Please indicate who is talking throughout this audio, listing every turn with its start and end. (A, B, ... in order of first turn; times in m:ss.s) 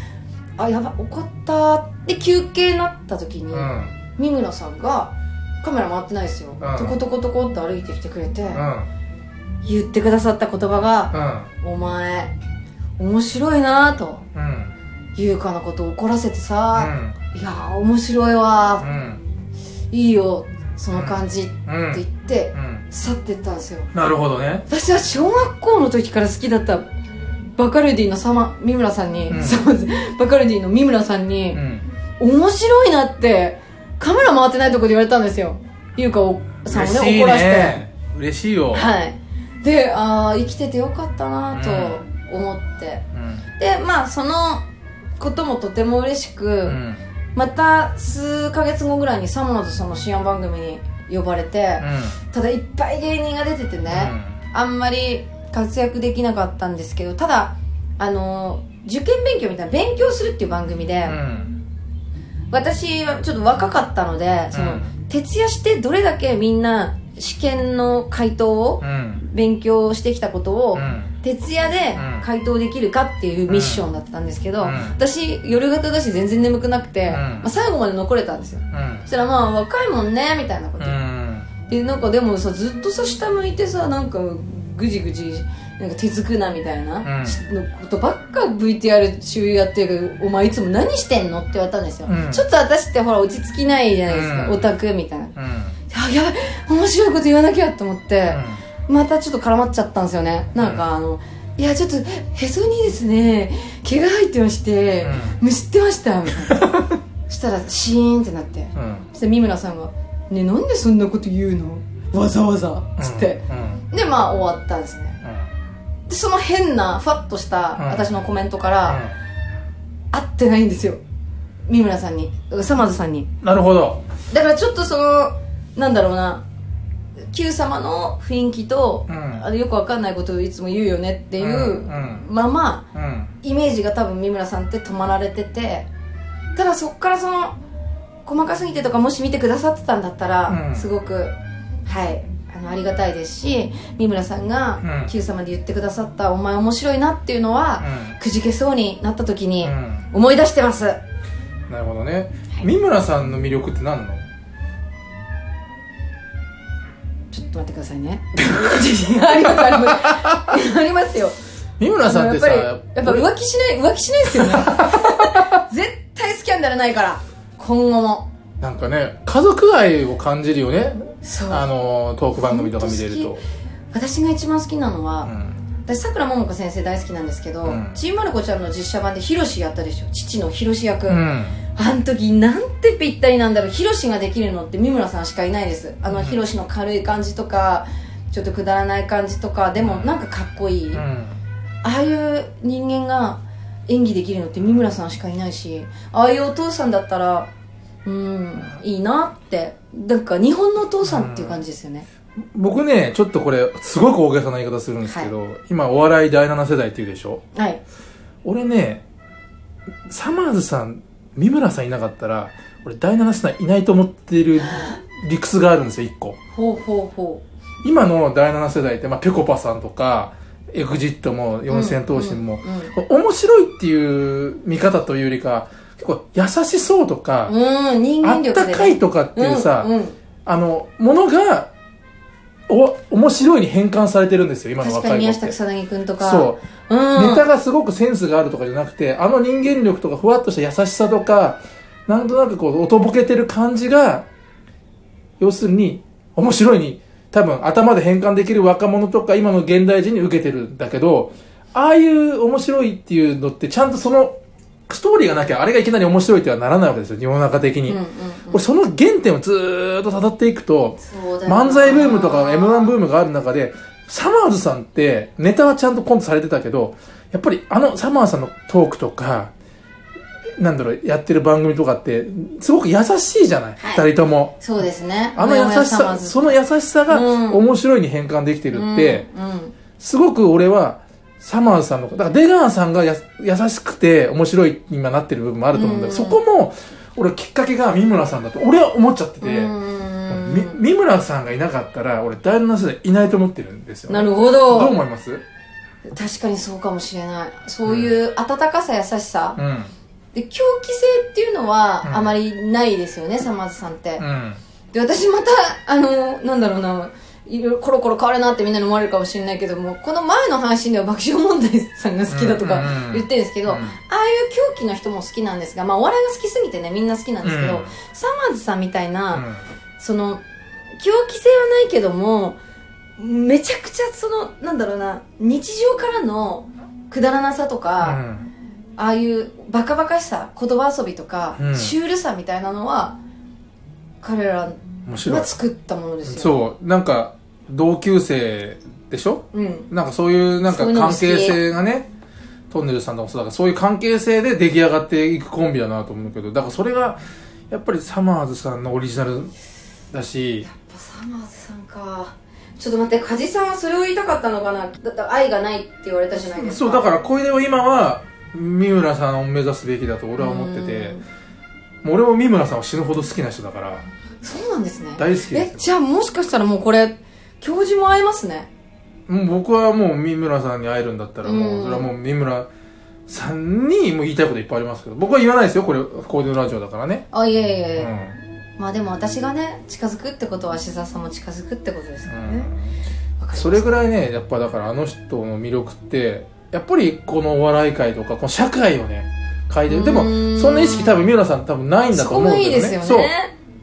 0:00.6-0:08.6 A
0:03.5-0:03.9 B
0:06.6-0:07.0 B
0:08.5-0:08.9 B
0:09.6-0:12.3 A
0:11.1-0:11.5 B
0:13.0-0:14.3 A
0:14.3-0:14.7 B
0:15.2-0:18.9 A
0:16.8-0:17.2 B
0:18.8-0:19.2 B
0:19.9-0:23.9 A
0:21.0-0:22.0 B
0:22.6-0:22.8 B
0:23.9-0:24.6 B
0:24.7-0:26.8 A
0:27.6-0:31.6 A
0:29.3-0:29.7 B
0:31.5-0:31.8 B
0:32.2-0:37.8 A
0:36.7-0:38.9 B
0:38.7-0:43.0 A
0:41.5-0:42.0 B
0:43.1-0:43.4 B
0:43.6-0:44.6 A
0:45.2-0:46.8 A
0:46.7-0:47.0 B
0:47.4-1:01.2 A
0:51.8-0:52.2 B
0:53.9-0:54.4 B
1:01.1-1:01.6 B
1:02.5-1:21.0 A
1:04.5-1:04.9 B
1:08.8-1:09.2 B
1:10.8-1:11.1 B
1:12.0-1:12.2 B
1:13.5-1:13.8 B
1:14.6-1:15.0 B
1:17.1-1:17.5 B
1:18.7-1:19.1 B
1:20.8-1:21.5 B
1:21.6-1:35.4 A
1:27.0-1:27.4 B
1:32.1-1:32.4 B
1:34.1-1:34.7 B
1:35.4-1:35.8 B
1:35.9-1:55.2 A
1:38.3-1:38.6 B
1:40.6-1:40.8 B
1:45.0-1:45.4 B
1:48.8-1:49.1 B
1:53.0-1:53.8 B
1:55.2-1:55.5 B
1:56.1-1:59.0 A
1:57.8-1:58.1 B
1:58.9-1:59.2 B
2:00.1-2:01.0 A
2:01.7-2:03.3 A
2:03.4-2:04.0 B
2:04.3-2:06.4 A
2:07.3-2:12.9 A
2:09.1-2:09.4 B
2:11.4-2:12.2 B
2:13.0-2:13.3 B
2:13.4-2:15.9 A
2:16.6-2:17.6 A
2:18.3-2:21.4 A
2:20.5-2:20.9 B
2:21.9-2:31.0 A
2:24.8-2:25.1 B
2:27.8-2:28.2 B
2:29.6-2:30.0 B
2:31.7-2:34.2 B
2:37.3-2:41.4 A
2:38.6-2:40.3 B
2:41.8-2:43.3 B
2:42.0-2:48.3 A
2:44.3-2:45.5 B
2:48.6-2:53.4 B
2:51.2-2:51.7 A
2:52.4-2:53.4 A
2:53.9-2:55.3 A
2:55.2-2:55.6 B
2:55.8-3:01.2 A
2:57.6-2:58.0 B
3:01.1-3:01.6 B
3:01.8-3:11.0 A
3:06.1-3:06.4 B
3:09.8-3:10.1 B
3:10.9-3:11.4 B
3:11.8-3:17.5 A
3:18.0-3:22.1 A
3:21.0-3:21.6 B
3:22.5-3:27.4 B
3:25.1-3:25.3 A
3:27.6-3:27.8 A
3:28.4-3:29.0 B
3:30.1-3:36.4 B
3:34.7-3:35.0 A
3:36.6-3:37.4 A
3:37.8-3:47.6 B
3:41.7-3:42.9 A
3:47.5-3:50.2 A
3:48.2-3:49.9 B
3:50.5-3:51.7 B
3:52.7-3:55.5 B
3:54.8-3:57.4 A
3:56.2-3:56.6 B
3:57.2-4:04.3 B
4:05.4-4:14.4 B
4:14.9-4:18.0 B
4:17.9-4:18.6 A
4:18.5-4:29.5 B
4:21.0-4:23.0 A
4:30.6-4:34.6 B
4:33.8-4:34.0 A
4:34.6-4:37.6 A
4:35.4-4:39.2 B
4:38.7-4:39.8 A
4:40.0-4:49.7 B
4:45.7-4:46.4 A
4:49.4-4:50.8 A
4:50.3-4:55.4 B
4:54.1-4:55.0 A
4:56.1-4:59.6 A
4:57.9-4:58.1 B
4:59.6-4:59.9 B
5:00.3-5:04.2 A
5:02.0-5:02.3 B
5:04.2-5:04.6 B
5:04.9-5:19.5 A
5:12.3-5:14.0 B
5:17.4-5:17.9 B
5:19.3-5:19.6 B
5:20.0-5:20.4 A
5:21.0-5:22.6 A
5:23.2-5:28.2 A
5:28.0-5:28.5 B
5:29.0-5:33.2 A
5:31.6-5:32.0 B
5:34.2-5:36.6 A
5:35.1-5:35.5 B
5:36.3-5:42.1 B
5:39.5-5:39.9 A
5:40.7-5:41.6 A
5:42.7-5:49.5 B
5:50.1-5:50.7 B
5:50.6-5:57.1 A
5:56.6-6:01.2 B
6:00.4-6:01.2 A
6:02.0-6:04.0 B
6:04.4-6:08.7 A
6:05.2-6:05.9 B
6:09.3-6:12.7 B
6:11.4-6:12.1 A
6:13.3-6:17.3 B
6:17.3-6:18.1 A
6:18.0-6:18.4 B
6:18.8-6:22.7 A
6:22.3-6:22.9 B
6:23.4-6:24.0 A
6:23.5-6:33.3 B
6:29.9-6:31.3 A
6:32.1-6:33.5 A